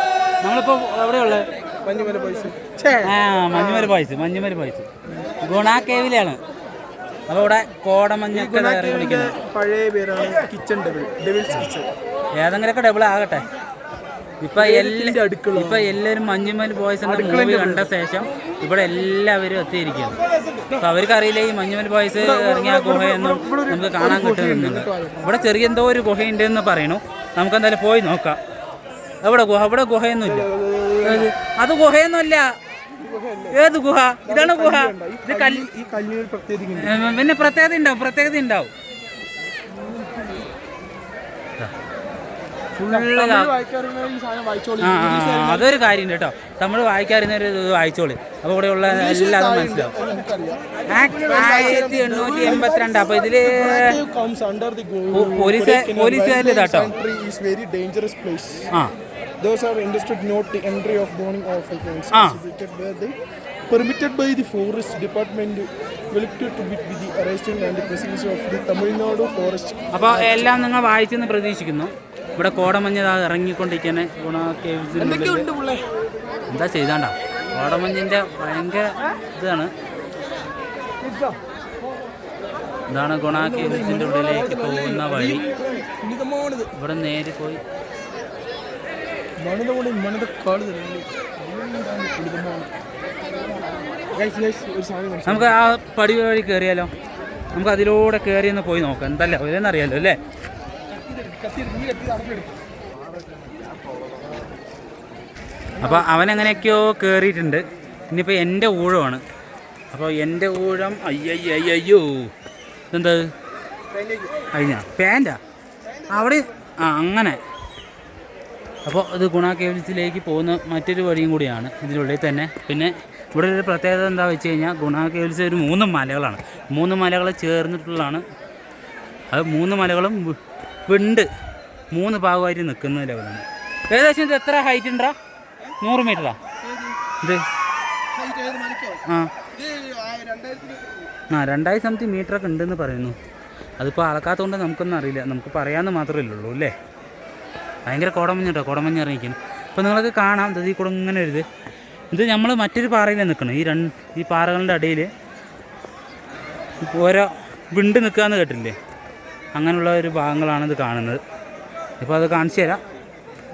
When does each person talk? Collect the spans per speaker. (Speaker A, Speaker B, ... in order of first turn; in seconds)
Speaker A: 0.4-1.5, 3.0-4.9, 5.4-6.4, 7.3-9.3, 12.4-13.5, 14.4-20.2, 20.8-28.4, 29.2-30.5, 31.1-32.5, 33.5-35.7, 36.8-38.7, 42.8-43.5, 44.8-49.9, 50.9-54.0, 55.1-56.9, 62.1-62.4, 69.9-75.5, 76.5-79.7, 82.9-85.4, 86.8-87.6, 95.3-96.9, 97.5-100.2, 105.8-109.2, 109.9-112.3, 112.9-113.3, 114.5-115.4, 116.1-117.4, 118.9-128.2, 129.3-131.3, 131.9-135.1, 135.8-136.4, 141.3-143.2, 143.8-146.7, 147.9-151.4, 152.1-155.1, 156.9-158.8, 159.6-161.2, 162.0-162.8
Speaker B: 1.9-4.0, 8.3-11.9, 14.6-16.0, 17.0-17.9, 20.5-20.8, 22.2-25.5, 30.2-31.3, 33.0-33.6, 34.2-37.0, 39.9-40.3, 42.9-45.9, 48.9-58.7, 59.4-63.1, 63.7-70.6, 75.0-75.8, 81.0-81.3, 83.3-86.7, 89.4-92.7, 94.1-95.5, 100.9-102.6, 105.8-106.6, 113.9-114.4, 116.0-116.3, 138.2-139.0, 139.6-141.1